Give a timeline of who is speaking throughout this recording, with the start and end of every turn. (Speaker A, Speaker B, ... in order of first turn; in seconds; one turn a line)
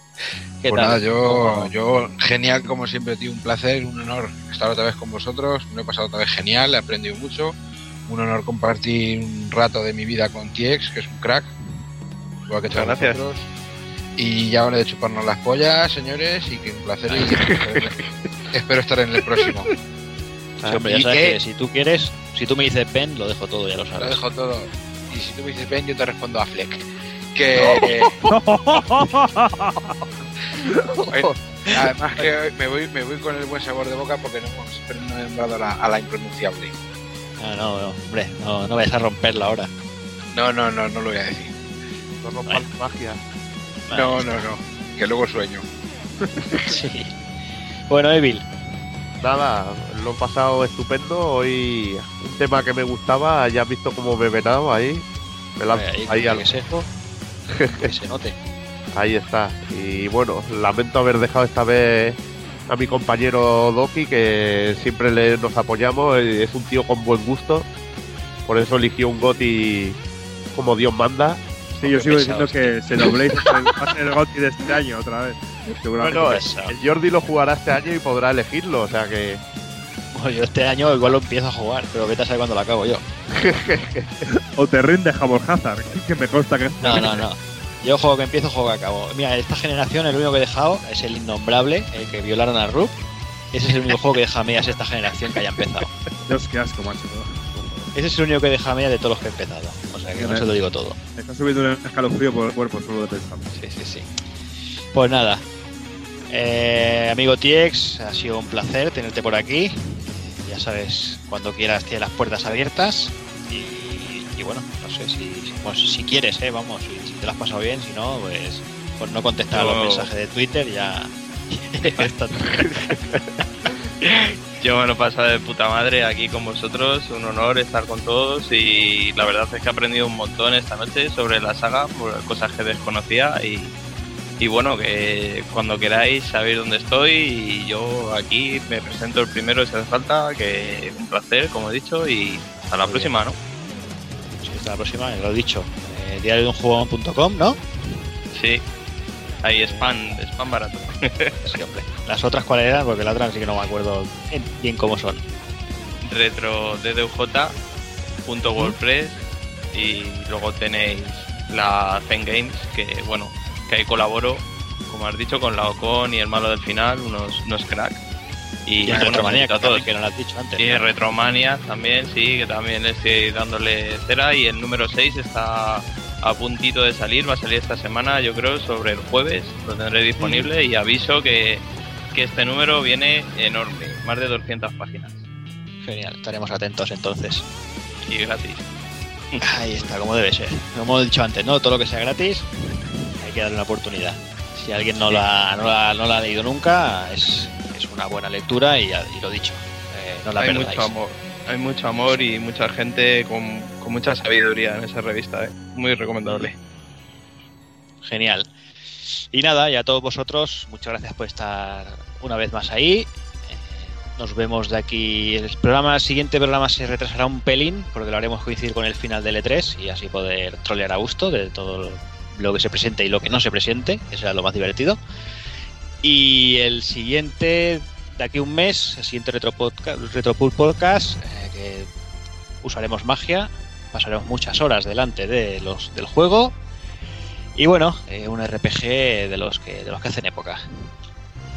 Speaker A: 0.6-1.7
Speaker B: 0.7-11.5
Speaker B: 12.5-13.5
Speaker C: 12.7-13.2
Speaker B: 14.2-18.0
Speaker D: 17.8-18.0
Speaker B: 18.5-19.8
Speaker A: 20.6-24.2
Speaker B: 20.7-21.4
Speaker B: 24.0-28.2
Speaker E: 28.3-29.9
Speaker B: 31.1-36.7
Speaker A: 37.4-39.7
Speaker B: 40.3-41.5
Speaker D: 42.2-43.2
Speaker A: 43.9-44.3
Speaker B: 43.9-45.6
Speaker A: 46.6-47.1
Speaker A: 47.9-48.5
Speaker D: 49.2-55.1
Speaker D: 55.6-56.5
Speaker A: 55.7-56.9
Speaker D: 57.5-57.9
Speaker A: 57.7-58.4
Speaker D: 58.9-67.7
Speaker D: 68.5-70.0
Speaker D: 70.5-71.4
Speaker A: 71.8-73.5
Speaker E: 71.8-76.4
Speaker A: 76.0-76.8
Speaker D: 76.1-79.4
Speaker A: 80.1-83.0
Speaker D: 83.3-84.2
Speaker E: 84.3-87.2
Speaker A: 86.8-93.0
Speaker A: 93.5-95.9
Speaker E: 96.3-97.9
Speaker A: 97.9-101.0
Speaker E: 100.2-100.5
Speaker E: 101.2-103.5
Speaker A: 103.5-104.1
Speaker A: 104.9-105.4
Speaker A: 106.3-123.0
Speaker C: 119.5-120.1
Speaker D: 122.6-123.0
Speaker C: 124.0-133.7
Speaker C: 134.4-143.4
Speaker A: 142.9-143.2
Speaker A: 144.4-147.6
Speaker C: 148.3-148.6
Speaker C: 149.4-151.5
Speaker A: 149.6-149.9
Speaker A: 151.4-155.2
Speaker C: 156.0-157.5
Speaker C: 158.2-159.2
Speaker C: 159.7-168.0
Speaker C: 168.7-169.9
Speaker A: 168.8-170.8
Speaker C: 170.6-185.2
Speaker A: 180.2-180.5
Speaker A: 185.8-187.4
Speaker C: 188.1-188.7
Speaker A: 189.4-192.5
Speaker A: 193.2-200.9
Speaker C: 200.4-206.5
Speaker A: 208.0-208.5
Speaker A: 209.1-225.0
Speaker A: 226.0-231.9
Speaker A: 232.6-236.6
Speaker A: 237.6-240.6